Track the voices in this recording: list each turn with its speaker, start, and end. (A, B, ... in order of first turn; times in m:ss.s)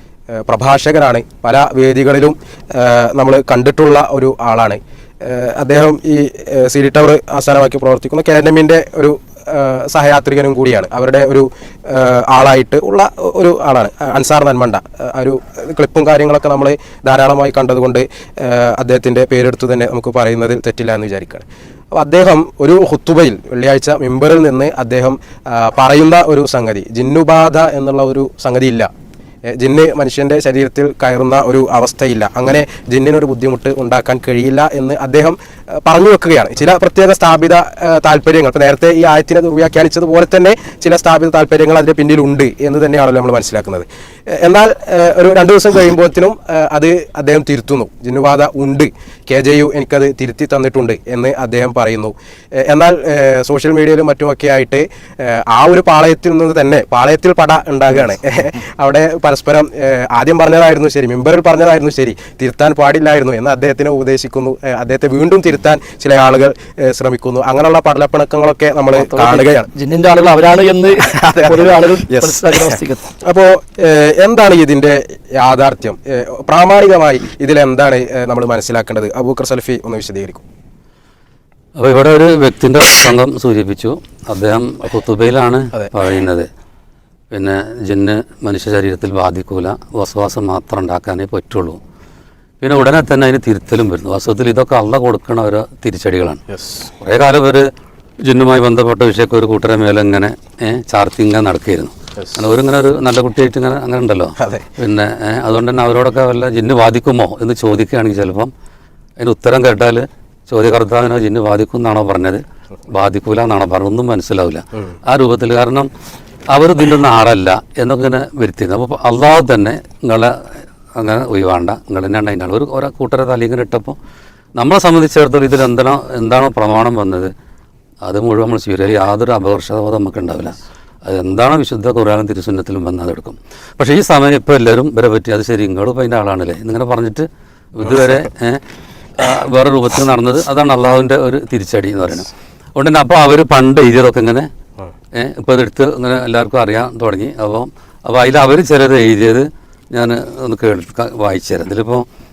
0:00.3-0:28.9 A
0:29.6-1:09.7 A
1:09.2-1:13.0 B
1:11.1-1:12.7 A
1:13.2-1:20.4 A
1:21.8-1:26.5 C
1:27.3-1:31.8 C
1:32.6-1:36.4 C
1:36.5-1:36.9 A
1:37.0-1:37.6 C
1:38.2-1:48.5 C
1:44.4-1:44.6 A
1:49.2-1:55.9 C
1:56.5-2:04.0 C
2:04.6-2:07.3 C
2:08.0-2:18.6 C
2:19.2-2:24.5 C
2:25.1-2:32.0 C